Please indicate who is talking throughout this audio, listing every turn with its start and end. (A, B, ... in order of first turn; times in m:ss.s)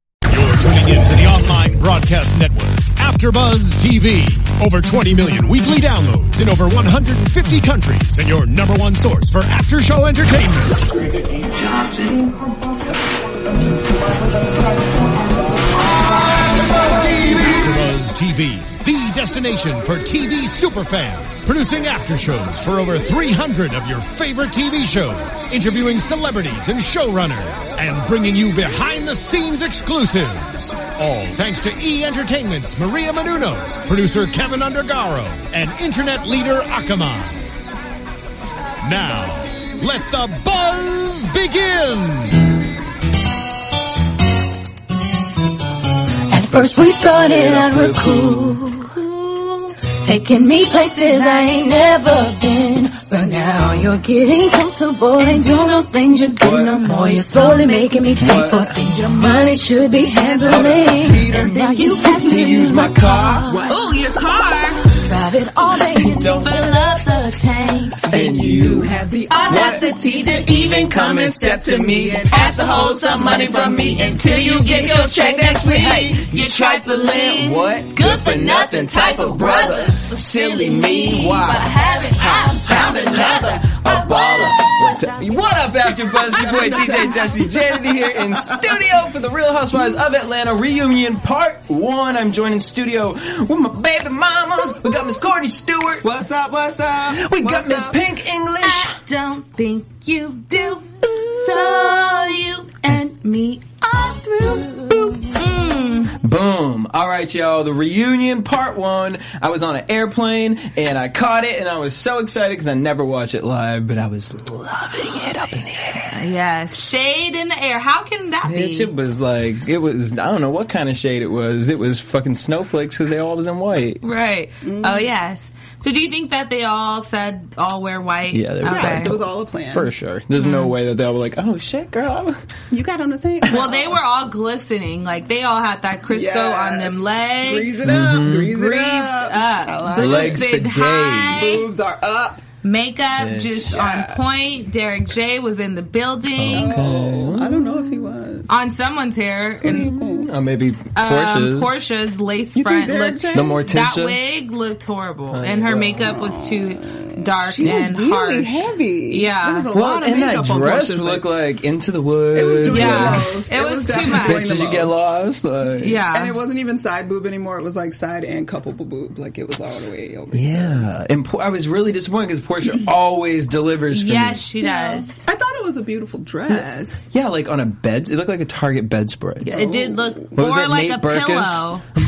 0:00.3-0:10.9 A
0:16.8-0:37.5 A
0:38.8-0:42.5 A
0:46.3-0:48.9 B
0:46.4-0:48.7 C
0:49.0-0:49.8 D
0:49.8-1:03.7 B
0:56.4-0:57.0 C
0:58.2-0:58.8 C
1:00.4-1:03.6 C
1:01.3-1:02.7 D
1:03.5-1:03.8 E
1:03.7-1:04.9 D
1:04.9-1:07.0 B
1:05.9-1:06.9 C
1:06.4-1:08.0 D
1:08.0-1:12.8 E
1:08.0-1:36.1 C
1:09.3-1:11.0 D
1:12.3-1:27.3 D
1:26.3-1:28.6 E
1:36.0-1:38.0 E
1:37.1-1:39.0 C
1:38.6-1:46.1 D
1:41.0-1:42.4 C
1:44.6-1:45.3 C
1:46.1-1:56.2 C
1:56.1-1:58.9 D
1:58.4-2:04.0 C
2:04.0-2:09.1 D
2:04.6-2:05.1 E
2:08.3-2:12.4 C
2:08.6-2:09.9 E
2:10.4-2:10.7 D
2:12.7-2:14.0 E
2:13.5-2:21.6 D
2:16.1-2:20.4 E
2:17.8-2:18.6 C
2:19.9-2:21.6 C
2:21.4-2:22.4 E
2:22.6-2:26.8 D
2:23.1-2:23.8 C
2:23.7-2:24.2 E
2:26.3-2:28.2 C
2:26.5-2:28.5 E
2:28.5-2:29.9 D
2:29.6-2:31.8 C
2:29.7-2:30.3 E
2:30.9-2:38.5 D
2:32.6-2:33.6 E
2:33.3-2:34.2 C
2:35.3-2:36.2 C
2:36.0-2:41.2 E
2:39.1-2:39.7 D
2:39.7-2:43.3 C
2:42.3-2:45.4 E
2:42.6-2:44.6 D
2:44.0-2:46.0 C
2:45.8-2:46.4 D
2:45.9-2:50.9 E
2:50.3-2:54.4 C
2:53.9-2:55.2 D
2:54.6-2:57.1 E
2:56.5-2:59.5 C
2:59.4-3:01.8 D
2:59.4-3:00.3 E
3:00.3-3:01.7 C